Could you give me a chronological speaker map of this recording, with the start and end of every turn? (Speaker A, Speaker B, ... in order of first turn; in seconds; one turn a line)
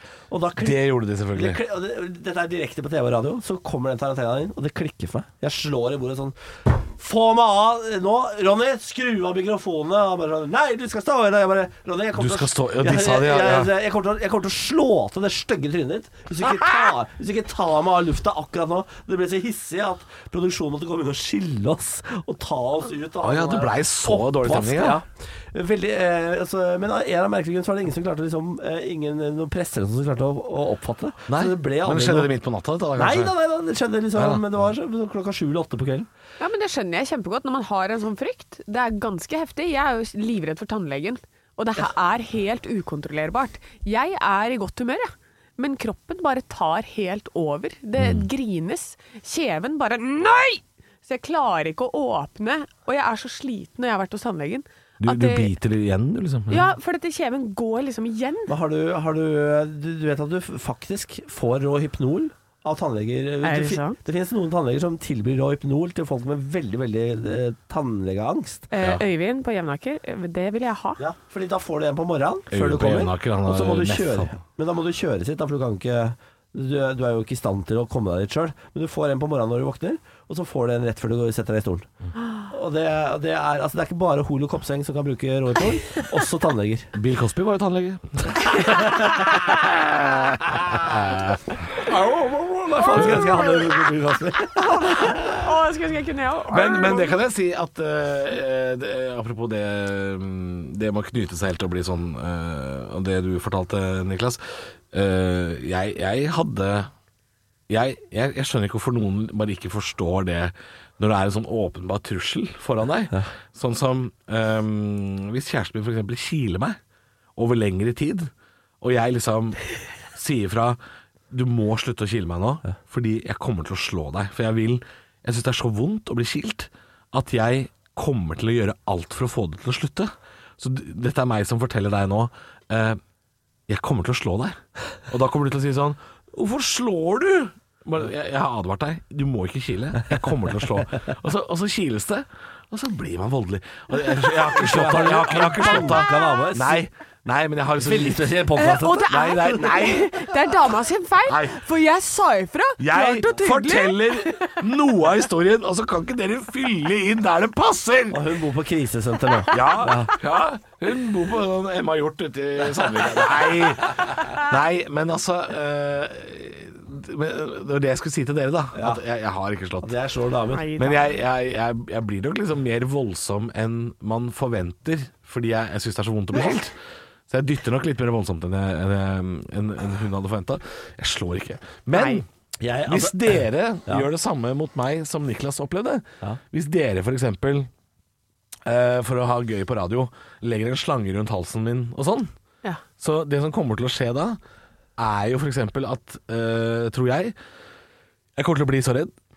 Speaker A: 0.3-32.3
Speaker B: 0.6-1.6
Speaker B: 12.2-13.7
Speaker B: 23.2-25.0
Speaker B: 31.3-33.3
Speaker A: 33.0-36.1
Speaker B: 34.1-34.4
Speaker C: 36.4-55.5
Speaker B: 55.0-56.7
Speaker C: 56.5-58.5
Speaker A: 58.5-68.7
Speaker C: 63.4-64.0
Speaker C: 68.7-71.0
Speaker A: 71.0-81.9
Speaker B: 72.5-74.3
Speaker A: 82.5-86.9
Speaker B: 86.9-91.5
Speaker A: 88.5-89.4
Speaker A: 90.7-91.2
Speaker A: 91.8-95.5
Speaker C: 92.8-93.7
Speaker C: 94.5-97.2
Speaker B: 96.5-106.9
Speaker B: 107.7-116.8
Speaker B: 117.3-120.8
Speaker B: 121.3-133.0
Speaker B: 133.7-148.3
Speaker A: 144.2-146.9
Speaker A: 147.8-149.6
Speaker C: 148.6-154.6
Speaker B: 149.1-150.1
Speaker B: 151.2-151.6
Speaker B: 152.8-158.3
Speaker A: 158.1-160.1
Speaker B: 159.5-169.9
Speaker A: 168.7-169.0
Speaker A: 169.8-170.7
Speaker C: 170.5-171.1
Speaker B: 170.8-176.7
Speaker B: 177.3-182.2
Speaker A: 182.6-184.1
Speaker B: 182.9-187.7
Speaker B: 188.6-192.3
Speaker B: 193.0-194.4
Speaker B: 195.0-197.3
Speaker B: 198.3-199.1